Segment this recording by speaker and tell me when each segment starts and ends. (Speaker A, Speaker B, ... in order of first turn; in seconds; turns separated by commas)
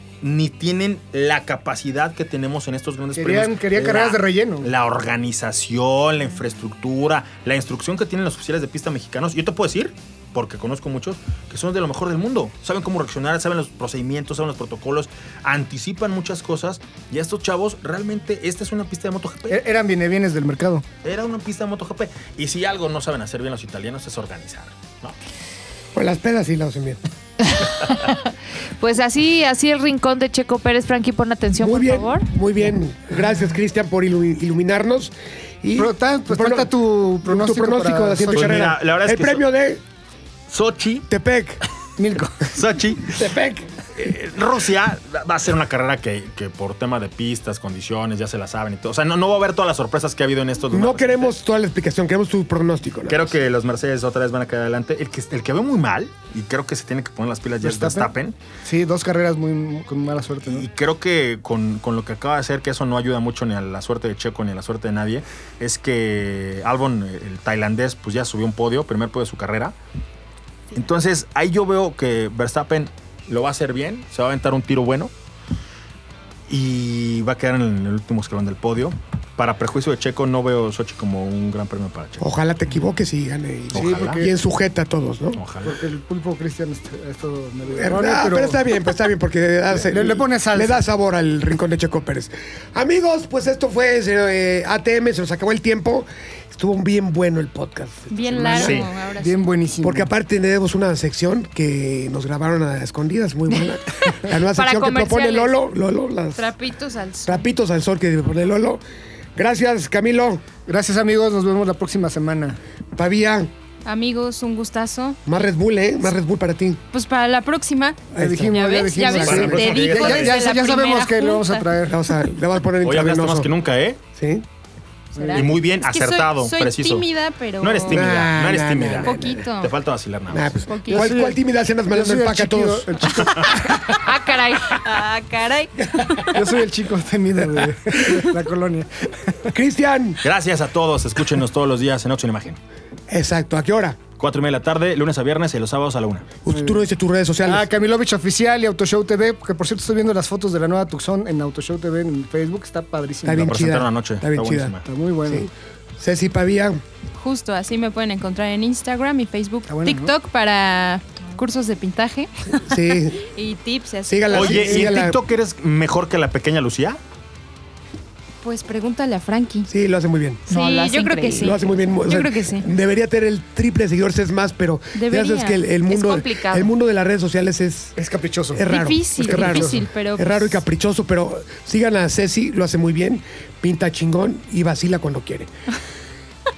Speaker A: 0.2-19.6, Speaker B: 3.2-4.7, Speaker B: 19.5-20.9, Speaker A: 21.0-25.1, Speaker C: 25.9-27.0, Speaker D: 27.4-32.3, Speaker C: 31.6-39.8, Speaker B: 35.8-38.7, Speaker A: 38.3-39.5, Speaker A: 40.5-41.1, Speaker C: 41.1-41.6, Speaker B: 42.0-42.5, Speaker A: 42.4-43.1, Speaker C: 43.1-43.7, Speaker A: 44.0-51.3, Speaker C: 50.7-53.4, Speaker A: 53.1-58.4, Speaker B: 57.6-58.1, Speaker B: 58.6-60.6, Speaker A: 60.5-69.8, Speaker A: 70.7-75.1, Speaker A: 76.5-82.2, Speaker C: 82.2-85.4, Speaker A: 83.7-84.2, Speaker B: 83.7-84.3, Speaker A: 85.4-85.8, Speaker B: 85.6-88.6, Speaker C: 87.8-98.8, Speaker B: 89.8-90.8, Speaker E: 98.1-99.3, Speaker B: 98.4-100.1, Speaker A: 98.6-98.9, Speaker C: 99.8-106.5, Speaker D: 104.5-105.6, Speaker E: 106.4-107.5, Speaker C: 107.3-108.8, Speaker C: 109.4-110.4, Speaker B: 110.7-112.6, Speaker C: 113.0-113.5, Speaker E: 113.8-115.2, Speaker C: 115.3-116.8, Speaker E: 116.9-121.7, Speaker C: 118.1-119.7, Speaker B: 118.2-122.0, Speaker A: 119.1-120.4, Speaker C: 121.9-123.5, Speaker A: 122.8-124.0, Speaker C: 124.2-124.5, Speaker B: 125.2-125.5, Speaker E: 125.2-128.1, Speaker A: 125.3-127.1, Speaker A: 127.6-130.7, Speaker C: 127.9-129.4, Speaker E: 129.0-129.7, Speaker C: 130.3-133.4, Speaker E: 130.7-131.1, Speaker B: 130.9-133.7, Speaker D: 133.9-134.8, Speaker E: 134.7-136.4, Speaker B: 136.3-139.5, Speaker C: 139.5-140.2, Speaker A: 140.2-142.6, Speaker C: 143.1-144.0, Speaker A: 144.2-146.3, Speaker C: 146.4-147.7, Speaker B: 146.5-146.8, Speaker B: 147.4-153.5, Speaker C: 153.2-156.8, Speaker A: 153.3-154.9, Speaker B: 154.8-155.5, Speaker E: 157.2-164.9, Speaker B: 159.7-160.1, Speaker C: 162.6-163.3, Speaker C: 164.1-165.2, Speaker A: 164.3-167.0, Speaker E: 168.4-169.7, Speaker C: 169.7-170.4, Speaker E: 170.5-172.7, Speaker D: 170.5-171.6, Speaker C: 171.4-177.9, Speaker E: 174.9-175.6, Speaker D: 175.9-176.7, Speaker B: 178.0-178.7, Speaker C: 178.6-185.5, Speaker E: 178.7-180.6, Speaker B: 179.2-179.8